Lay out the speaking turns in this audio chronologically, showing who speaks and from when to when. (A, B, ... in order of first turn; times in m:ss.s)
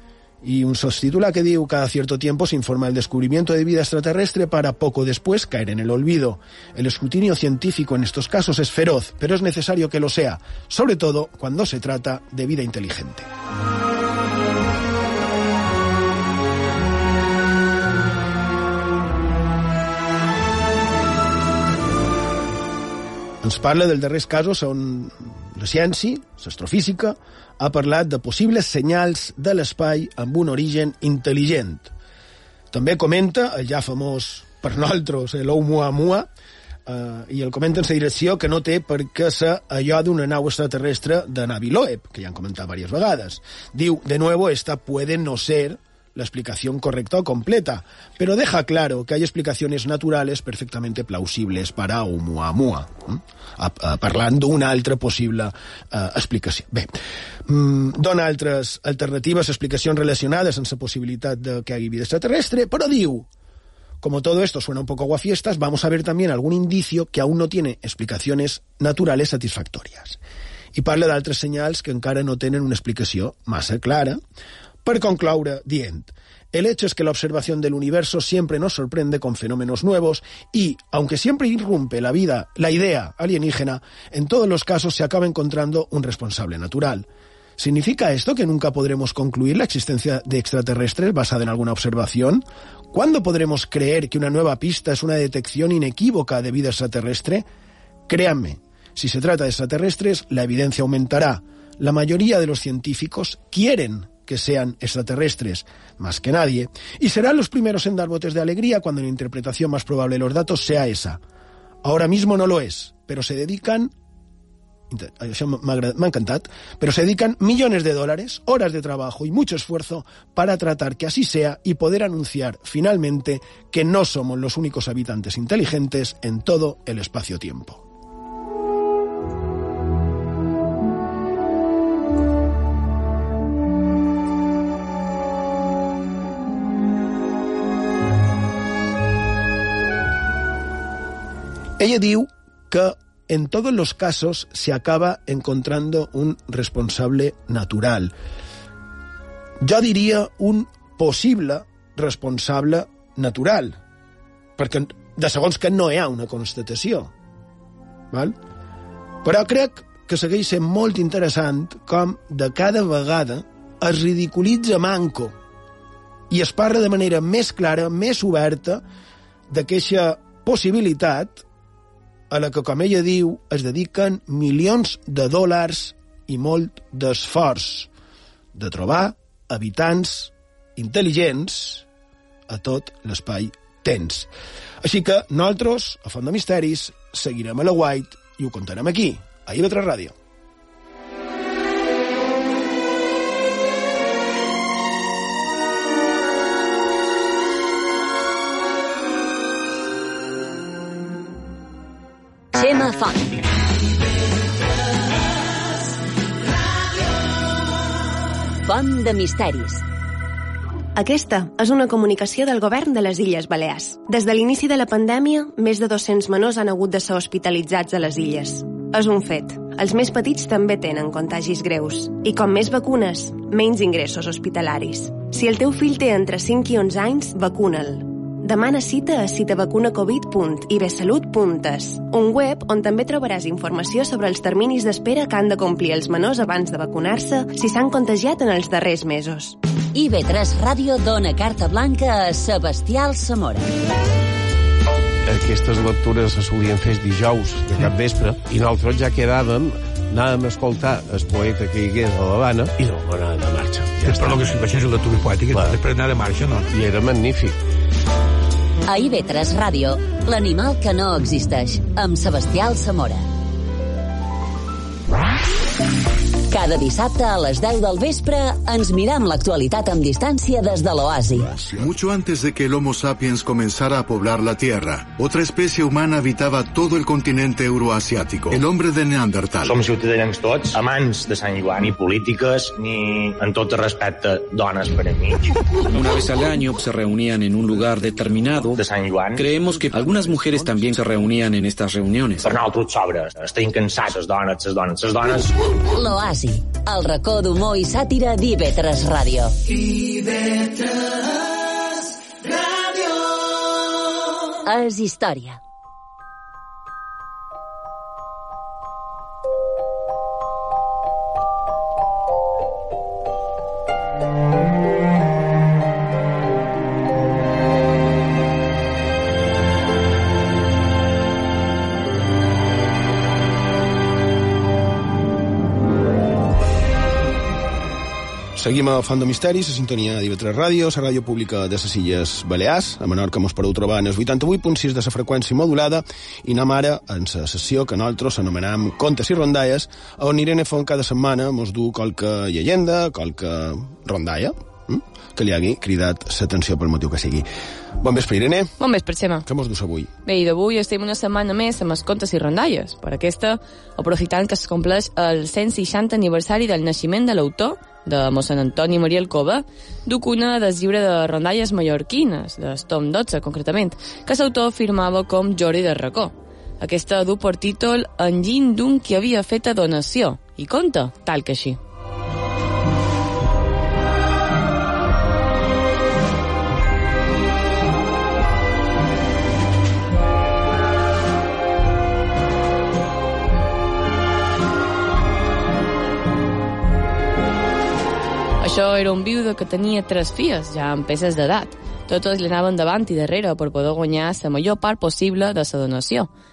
0:00.4-0:13.3 A
0:23.4-0:31.9 A
0:32.7-0:36.3 A
0:36.9-0:56.9 A
0:57.5-1:03.3 A
1:04.0-1:10.2 A
1:10.7-1:14.2 A
1:14.8-1:27.1 A
1:27.6-1:37.4 A
1:38.1-1:51.2 A
1:51.8-1:53.9 A
1:54.9-2:07.8 A
2:21.8-2:28.1 A
2:29.6-2:33.8 A
2:34.6-2:37.1 A
2:38.1-2:38.4 A
2:39.2-2:45.3 A
2:46.3-2:48.8 A
2:49.5-2:51.4 A
2:52.3-2:57.9 A
2:58.5-3:01.8 A
3:02.5-3:04.3 A
3:04.8-3:10.1 A
3:22.5-3:23.3 B
3:28.6-3:29.8 B
3:30.9-3:59.6 C
3:59.9-4:03.7 B
4:05.2-4:14.8 D
4:14.1-4:16.6 E
4:15.3-4:16.0 D
4:16.5-4:17.6 D
4:18.9-4:23.2 B
4:26.5-4:31.6 B
4:31.6-4:39.8 F
4:39.6-4:45.4 G
4:45.8-4:48.8 H
4:48.8-4:49.4 G
4:49.4-4:52.5 H
4:52.4-4:55.5 G
4:55.9-5:00.1 B
5:04.6-5:05.6 B
5:28.6-5:47.4 A
5:48.0-5:48.7 A
5:48.8-5:49.4 I
5:49.4-5:50.1 A
5:50.2-6:11.8 I
6:28.6-6:36.3 I